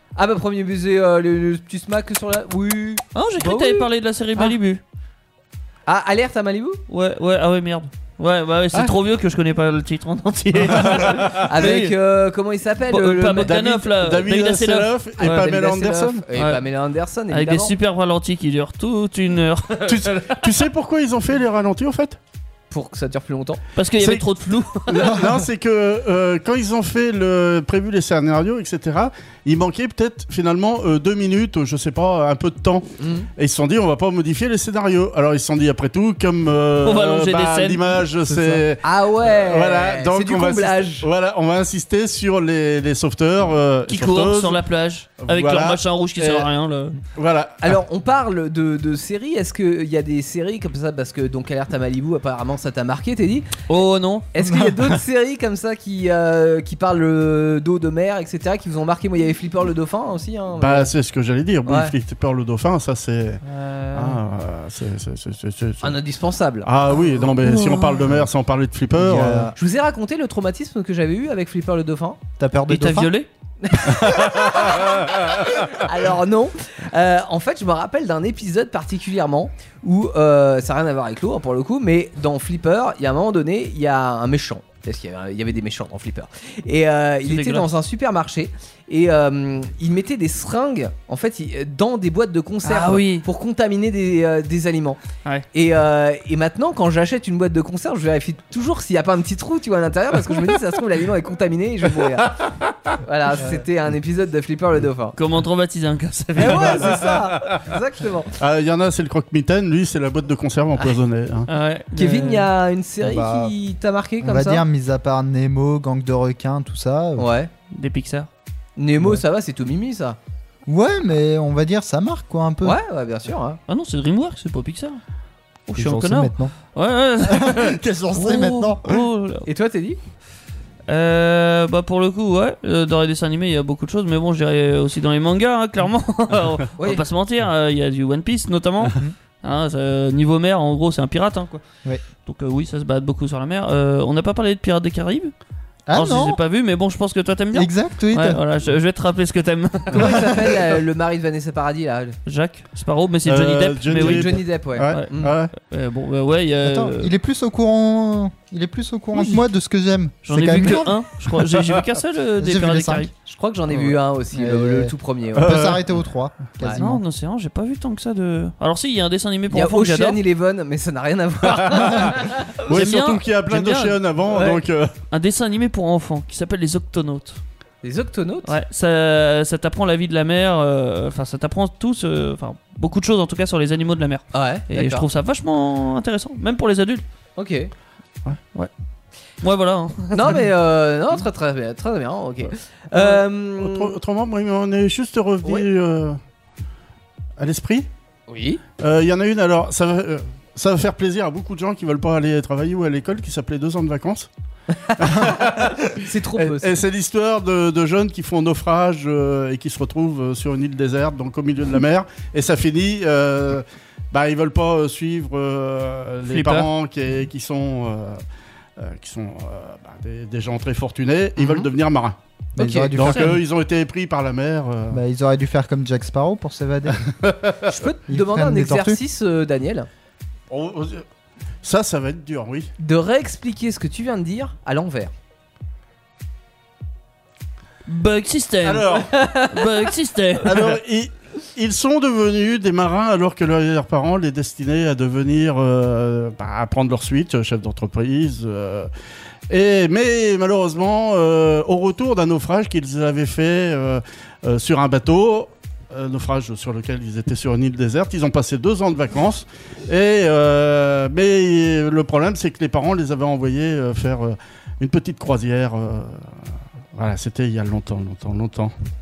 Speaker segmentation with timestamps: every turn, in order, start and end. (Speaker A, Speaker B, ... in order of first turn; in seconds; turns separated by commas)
Speaker A: 0.2-4.5, Speaker B: 3.1-4.8, Speaker A: 5.9-6.8, Speaker B: 6.9-11.9, Speaker C: 10.6-11.4, Speaker A: 11.4-13.6, Speaker B: 12.9-15.5, Speaker C: 13.4-16.2, Speaker A: 15.2-17.7, Speaker B: 16.3-16.6, Speaker B: 17.3-20.4, Speaker C: 19.8-22.2, Speaker A: 22.7-23.6, Speaker B: 23.8-25.3, Speaker C: 24.0-24.3, Speaker C: 24.9-44.6, Speaker A: 33.0-33.3, Speaker B: 36.8-38.0, Speaker D: 38.3-38.6, Speaker A: 38.8-41.1, Speaker B: 43.9-47.0, Speaker C: 45.2-46.5, Speaker C: 47.1-47.8, Speaker A: 47.6-53.5, Speaker B: 53.7-54.3, Speaker A: 54.3-60.9, Speaker C: 54.4-54.9, Speaker C: 60.6-63.4, Speaker A: 61.7-61.9, Speaker B: 63.5-64.2, Speaker C: 63.9-66.0, Speaker A: 65.8-66.7, Speaker C: 66.6-69.5, Speaker B: 67.4-68.2, Speaker D: 69.0-69.5, Speaker A: 69.6-72.2, Speaker D: 72.4-73.1, Speaker B: 72.7-73.3, Speaker A: 73.6-95.0, Speaker C: 74.2-74.7, Speaker B: 87.2-87.7, Speaker B: 92.7-93.3, Speaker A: 95.5-102.5, Speaker A: 103.0-105.2, Speaker B: 105.2-107.0, Speaker A: 106.4-108.3, Speaker C: 106.4-107.7, Speaker C: 108.4-111.5, Speaker B: 111.5-112.5, Speaker A: 111.9-114.6, Speaker D: 113.0-113.5, Speaker D: 114.2-117.3, Speaker A: 117.2-117.5, Speaker B: 117.7-118.3, Speaker A: 118.8-120.2, Speaker D: 120.7-122.8, Speaker A: 122.6-123.6, Speaker B: 123.7-125.0, Speaker B: 125.7-129.5, Speaker D: 125.8-126.5, Speaker D: 127.2-128.9, Speaker A: 129.5-130.0, Speaker B: 130.9-141.6, Speaker A: 136.8-137.0, Speaker B: 142.2-145.3, Speaker D: 145.9-146.4, Speaker B: 145.9-150.4, Speaker D: 147.5-148.4, Speaker A: 149.9-152.2, Speaker B: 152.3-157.1, Speaker C: 153.3-155.5, Speaker A: 153.9-155.3, Speaker D: 156.6-161.0, Speaker B: 159.2-159.4, Speaker B: 160.2-163.1, Speaker D: 162.4-163.1, Speaker A: 163.2-165.7, Speaker D: 163.8-167.0, Speaker C: 165.4-165.9, Speaker B: 166.7-170.2, Speaker A: 169.5-172.5, Speaker C: 171.6-174.9, Speaker B: 172.7-174.0, Speaker A: 174.3-174.6, Speaker B: 175.1-177.4, Speaker A: 177.8-178.5, Speaker B: 178.5-187.0, Speaker A: 184.3-185.1, Speaker A: 187.4-187.7, Speaker B: 189.4-190.4, Speaker A: 190.1-193.9, Speaker C: 192.9-196.2, Speaker C: 197.4-197.9, Speaker A: 198.3-198.6, Speaker C: 198.8-204.3, Speaker A: 204.9-205.3, Speaker C: 205.0-218.2, Speaker A: 206.0-206.7, Speaker B: 216.3-216.7, Speaker C: 218.8-222.2, Speaker A: 221.4-221.7, Speaker D: 222.6-223.4, Speaker A: 222.6-222.9, Speaker C: 222.9-225.0, Speaker B: 223.0-223.3, Speaker D: 224.9-227.1, Speaker A: 227.7-229.9, Speaker D: 228.1-229.0, Speaker C: 230.5-231.1, Speaker C: 231.6-232.7, Speaker A: 232.8-235.1, Speaker B: 237.9-240.8, Speaker C: 238.6-239.1, Speaker A: 239.1-239.8, Speaker C: 240.4-248.9, Speaker C: 249.5-266.3, Speaker C: 266.9-268.7